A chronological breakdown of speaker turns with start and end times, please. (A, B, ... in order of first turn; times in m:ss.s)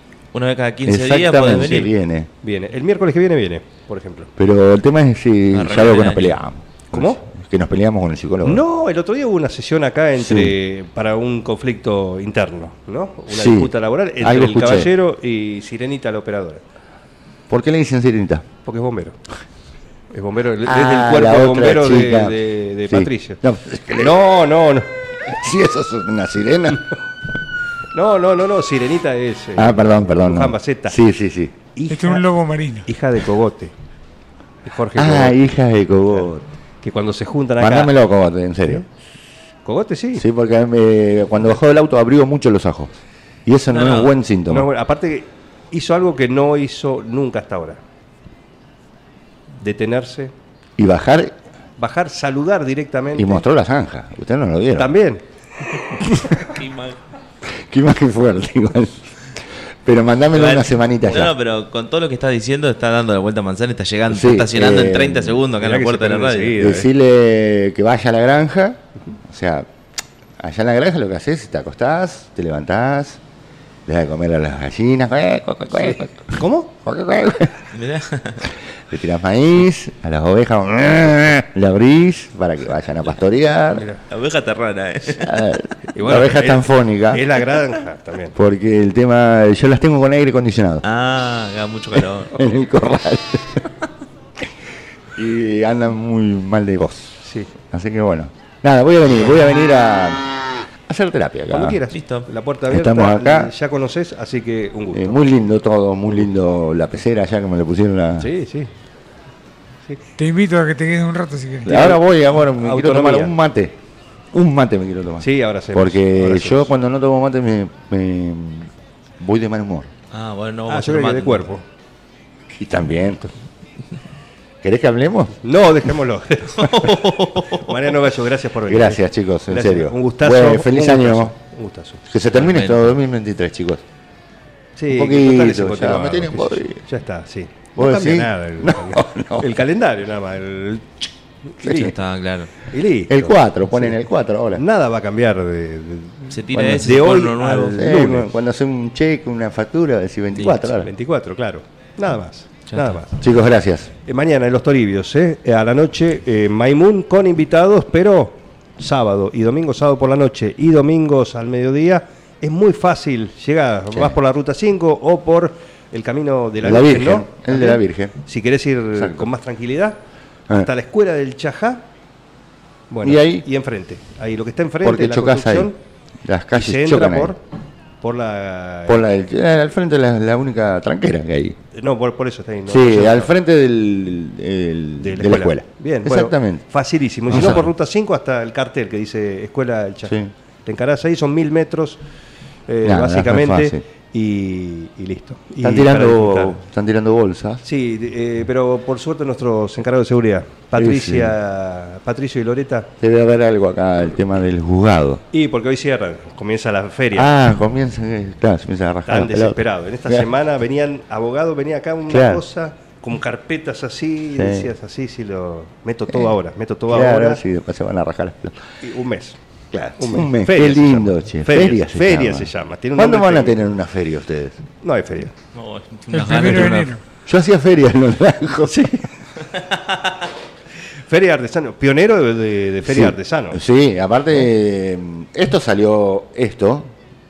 0:00.3-0:01.9 A
0:00.8-0:02.3 B
0:02.4-0:04.3 C
0:04.4-0:08.6 B
0:05.5-0:06.4 A
0:06.9-0:07.2 C
0:08.4-0:16.6 C
0:10.2-0:10.5 B
0:13.3-0:14.9 B
0:17.5-0:18.4 B
0:18.6-0:19.2 C
0:20.1-0:23.4 C
0:20.6-0:24.4 B
0:24.0-0:24.9 C
0:25.2-0:26.9 B
0:27.9-0:31.0 C
0:29.5-0:31.6 B
0:31.7-0:32.2 C
0:31.9-0:32.9 D
0:32.8-0:33.7 C
0:34.6-0:35.4 C
0:34.9-0:36.4 B
0:36.8-0:38.0 C
0:37.6-0:38.8 B
0:39.6-0:40.2 C
0:40.2-0:44.7 B
0:43.7-0:44.1 A
0:44.5-0:47.8 C
0:49.6-0:50.3 C
0:50.8-0:51.3 B
0:51.8-0:53.4 C
0:53.2-0:54.9 B
0:54.8-0:55.2 C
0:56.5-0:57.0 A
0:57.4-0:59.1 B
0:59.8-1:01.4 B
1:00.3-1:06.6 A
1:04.1-1:05.4 B
1:05.6-1:06.9 C
1:06.6-1:09.7 B
1:10.4-1:13.2 B
1:13.9-1:17.7 B
1:16.3-1:16.7 C
1:17.7-1:18.5 A
1:18.9-1:23.8 B
1:23.7-1:24.0 C
1:24.1-1:25.3 A
1:25.2-1:27.4 B
1:25.9-1:28.4 C
1:28.4-1:30.8 B
1:30.8-1:32.6 A
1:32.3-1:33.7 B
1:35.2-1:40.3 B
1:37.2-1:37.5 C
1:40.9-1:41.8 B
1:41.5-1:45.2 C
1:41.9-1:42.3 A
1:42.7-1:43.5 B
1:44.9-1:48.3 B
1:48.2-1:48.7 C
1:50.2-1:51.8 D
1:51.6-1:53.8 B
1:51.7-1:52.0 C
1:52.5-1:53.4 C
1:54.3-1:59.9 B
1:55.2-1:56.7 C
2:00.1-2:01.5 A
2:00.7-2:01.6 C
2:02.5-2:03.3 B
2:04.6-2:05.4 B
2:05.4-2:12.0 C
2:06.6-2:07.7 A
2:08.7-2:11.3 B
2:12.1-2:13.8 B
2:12.3-2:12.9 A
2:14.8-2:21.0 C
2:14.9-2:16.8 B
2:17.8-2:19.6 B
2:21.5-2:21.9 C
2:21.6-2:21.9 B
2:21.6-2:22.5 A
2:22.7-2:24.0 C
2:23.1-2:24.6 B
2:24.5-2:28.3 C
2:26.3-2:27.8 A
2:26.5-2:27.0 B
2:27.7-2:30.9 B
2:30.8-2:33.1 C
2:32.7-2:33.0 A
2:33.2-2:33.9 B
2:34.0-2:50.0 C
2:46.6-2:48.1 B
2:48.9-2:49.3 B
2:50.5-2:51.8 C
2:52.9-2:55.8 C
2:53.0-2:53.4 B
2:54.8-2:55.7 B
2:56.2-2:57.4 B
2:56.5-2:57.4 C
2:58.0-2:59.0 C
2:58.9-3:01.6 B
3:01.7-3:03.3 C
3:02.7-3:06.6 B
3:05.0-3:10.1 C
3:07.3-3:07.6 B
3:10.0-3:10.3 B
3:10.6-3:12.0 C
3:12.7-3:16.6 C
3:12.8-3:13.8 B
3:15.6-3:17.6 B
3:17.6-3:22.9 C
3:20.7-3:21.3 B
3:23.0-3:25.2 B
3:25.3-3:27.3 C
3:27.1-3:30.3 B
3:29.0-3:37.4 C
3:32.1-3:32.4 B
3:34.3-3:34.7 B
3:36.9-3:38.6 B
3:38.8-3:39.4 C
3:39.7-3:44.6 B
3:40.0-3:43.6 C
3:44.8-3:45.3 C
3:45.5-3:46.9 A
3:46.1-3:47.0 D
3:47.2-3:49.0 B
3:48.7-3:49.0 C
3:50.9-3:53.6 C
3:52.8-3:56.9 B